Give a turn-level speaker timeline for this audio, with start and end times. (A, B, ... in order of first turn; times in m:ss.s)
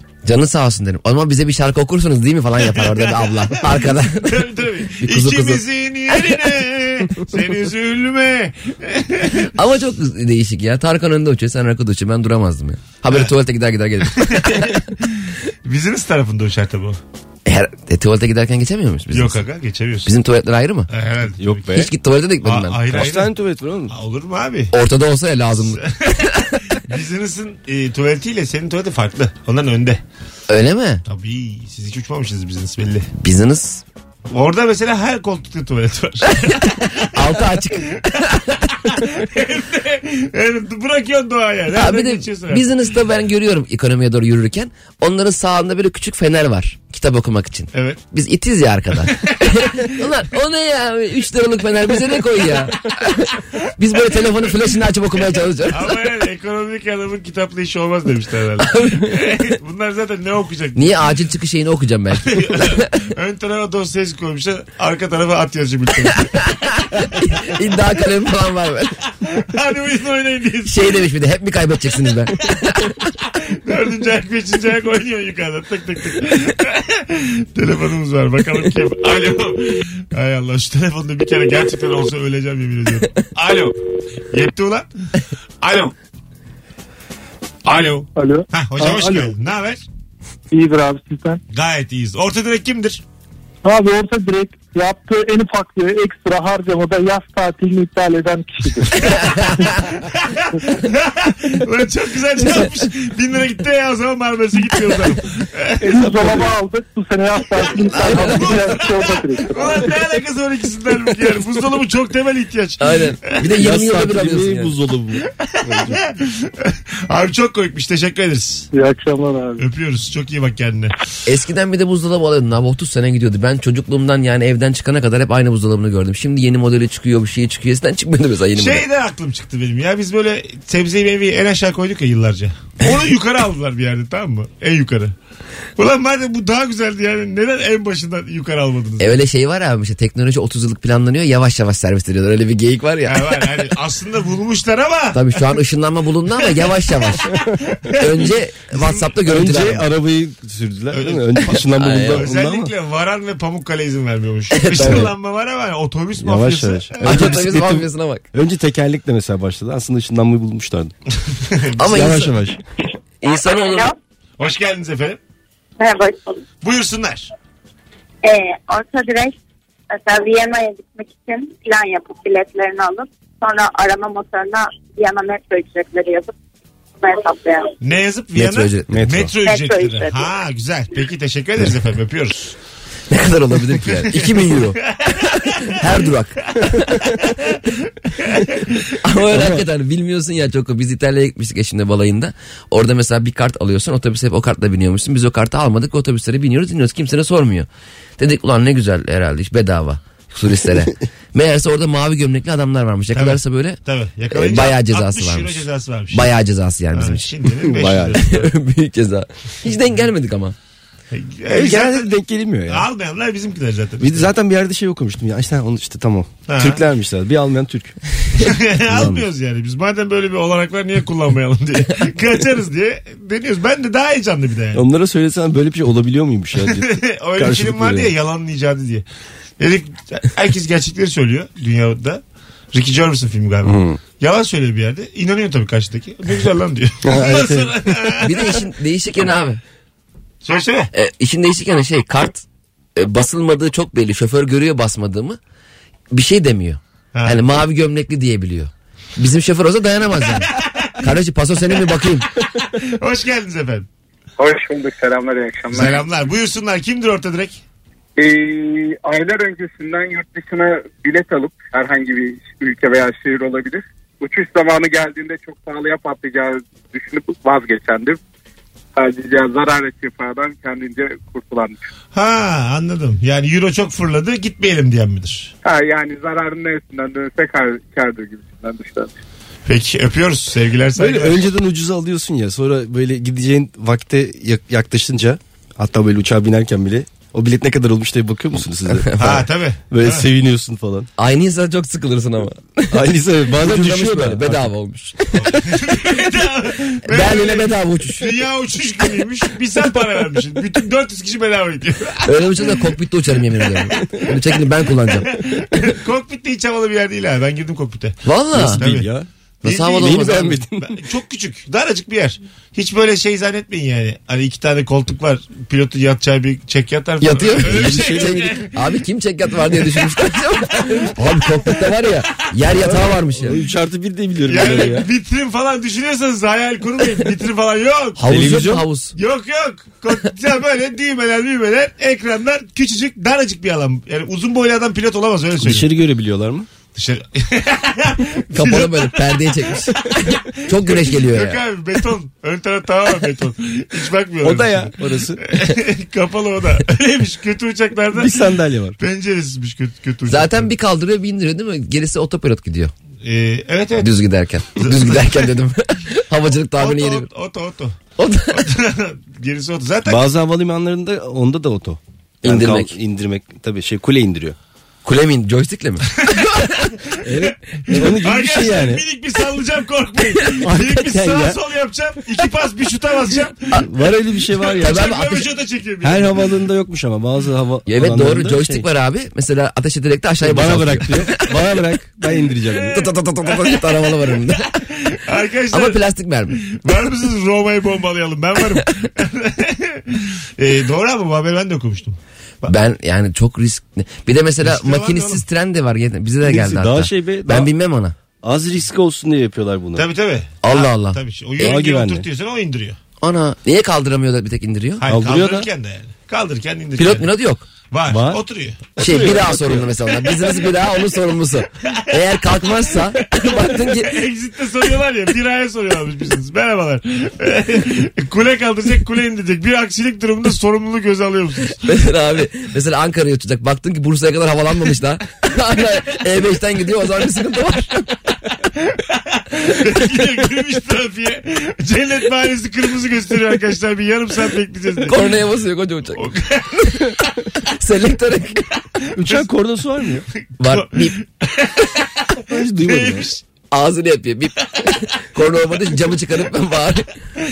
0:00.2-0:04.5 A
0:02.7-0:09.5 B
0:05.0-0:06.5 A
0:09.5-0:14.7 A
0:14.1-0:17.0 B
0:17.4-0:19.4 A
0:19.1-0:20.1 B
0:20.0-0:20.9 A
0:20.9-0:21.8 B
0:21.4-0:21.9 C
0:21.7-0:22.8 A
0:22.4-0:23.4 B
0:22.9-0:23.9 C
0:23.9-0:24.8 B
0:24.7-0:26.6 A
0:25.6-0:30.0 B
0:30.5-0:31.0 A
0:31.0-0:33.1 B
0:33.2-0:33.8 A
0:34.3-0:37.4 B
0:37.1-0:38.6 A
0:38.5-0:42.6 B
0:41.7-0:56.0 A
0:47.7-0:48.0 B
0:55.7-1:01.1 B
0:58.6-0:59.1 A
1:00.7-1:02.9 A
1:02.2-1:07.1 B
1:06.3-1:09.0 A
1:09.2-1:10.9 B
1:10.6-1:13.0 A
1:13.5-1:24.9 B
1:25.6-1:25.9 B
1:27.6-1:29.8 B
1:28.2-1:29.3 D
1:30.5-1:31.4 D
1:31.5-1:33.0 B
1:33.6-1:39.7 D
1:39.0-1:39.7 A
1:39.6-1:46.4 B
1:45.8-1:50.0 D
1:46.0-1:46.4 C
1:47.9-1:53.0 B
1:48.0-1:48.3 A
1:52.8-1:54.8 A
1:53.4-1:56.0 C
1:55.4-1:58.7 B
1:58.7-1:59.6 D
1:59.6-2:00.9 B
2:01.2-2:08.8 A
2:08.6-2:15.1 B
2:15.8-2:19.2 B
2:19.0-2:23.5 A
2:23.0-2:25.4 B
2:25.1-2:27.3 A
2:26.4-2:26.9 B
2:27.7-2:29.1 B
2:28.0-2:29.8 A
2:29.2-2:32.7 C
2:30.9-2:37.5 B
2:31.5-2:32.3 A
2:34.5-2:35.1 A
2:36.2-2:40.9 C
2:37.0-2:38.2 A
2:41.3-2:42.3 B
2:41.8-2:42.3 A
2:41.9-2:42.6 C
2:43.2-2:43.9 A
2:43.4-2:44.0 E
2:44.4-2:45.2 B
2:45.8-2:46.4 E
2:46.6-2:47.3 B
2:48.2-2:49.4 E
2:49.9-2:56.3 E
2:57.0-2:57.7 E
2:57.8-3:02.5 B
2:58.4-2:58.9 A
2:58.9-2:59.3 C
2:59.4-3:00.3 E
3:03.1-3:07.1 A
3:04.0-3:05.8 B
3:08.2-3:08.5 B
3:09.0-3:23.8 A
3:23.1-3:26.3 B
3:24.3-3:27.3 A
3:26.9-3:28.5 B
3:27.6-3:28.2 C
3:28.2-3:30.5 A
3:31.1-3:32.1 B
3:31.5-3:32.9 C
3:32.7-3:34.3 B
3:34.0-3:38.0 C
3:36.5-3:36.8 B
3:38.3-3:44.8 B
3:38.9-3:39.3 C
3:44.7-3:48.1 C
3:46.6-3:49.0 B
3:49.6-3:58.6 B
3:53.6-3:54.0 C
3:57.0-3:58.1 C
3:58.2-3:59.6 A
4:00.4-4:00.9 B
4:00.9-4:02.4 A
4:03.0-4:05.4 A
4:06.1-4:12.3 A
4:07.1-4:07.4 B
4:10.3-4:11.1 B
4:12.4-4:13.8 B
4:14.4-4:16.0 F
4:15.7-4:17.6 B
4:18.2-4:28.2 F
4:29.0-4:31.8 F
4:32.1-4:35.5 B
4:35.6-4:39.2 F
4:39.6-4:41.5 B
4:41.0-4:49.4 C
4:49.0-4:49.4 A
4:49.2-4:50.2 B
4:49.9-4:51.1 C
4:51.2-4:55.6 A
4:52.9-4:54.6 C
4:55.3-5:02.8 B
4:57.1-4:58.3 A
5:02.2-5:05.3 A
5:05.0-5:09.1 B
5:08.2-5:08.8 A
5:08.5-5:09.3 C
5:09.6-5:10.6 A
5:09.6-5:19.0 B
5:10.0-5:11.0 C
5:17.2-5:23.6 A
5:17.6-5:18.6 C
5:22.7-5:25.1 C
5:24.5-5:28.4 B
5:28.2-5:29.1 A
5:28.2-5:28.8 C
5:29.1-5:35.9 B
5:35.6-5:36.7 C
5:36.9-5:50.7 B
5:38.5-5:41.6 A
5:44.4-5:45.4 C
5:48.1-5:49.0 C
5:50.3-5:52.9 A
5:53.2-5:54.1 B
5:54.0-5:57.3 A
5:54.8-5:55.5 B
5:56.8-5:58.0 B
5:58.2-5:58.7 A
5:58.5-6:00.2 B
6:00.0-6:04.6 C
6:02.4-6:02.9 A
6:05.0-6:06.1 A
6:06.2-6:06.8 B
6:07.2-6:09.0 C
6:07.4-6:13.8 B
6:10.6-6:11.6 C
6:13.7-6:15.0 C
6:14.5-6:16.4 B
6:14.8-6:15.4 A
6:16.0-6:18.8 C
6:17.9-6:21.6 A
6:20.4-6:23.1 C
6:22.9-6:24.7 A
6:24.8-6:26.0 B
6:25.7-6:26.6 A
6:26.5-6:32.7 B
6:32.6-6:38.1 A
6:34.6-6:35.4 B
6:36.4-6:37.7 C
6:38.4-6:40.1 C
6:40.0-6:43.0 B
6:40.6-6:41.7 A
6:41.6-6:42.2 C
6:43.2-6:45.0 A
6:45.0-6:47.3 B
6:45.0-6:45.7 C
6:47.0-6:47.6 A
6:47.9-6:48.9 B
6:48.1-6:48.4 C
6:49.0-6:49.8 C
6:49.0-6:54.2 A
6:51.8-7:01.8 B
7:01.8-7:08.2 A
7:08.7-7:15.2 B
7:15.0-7:16.2 A
7:16.2-7:17.4 B
7:17.7-7:18.7 A
7:19.2-7:20.2 C
7:19.2-7:19.4 B
7:20.3-7:23.4 B
7:20.6-7:21.2 A
7:22.5-7:23.3 C
7:23.7-7:27.1 A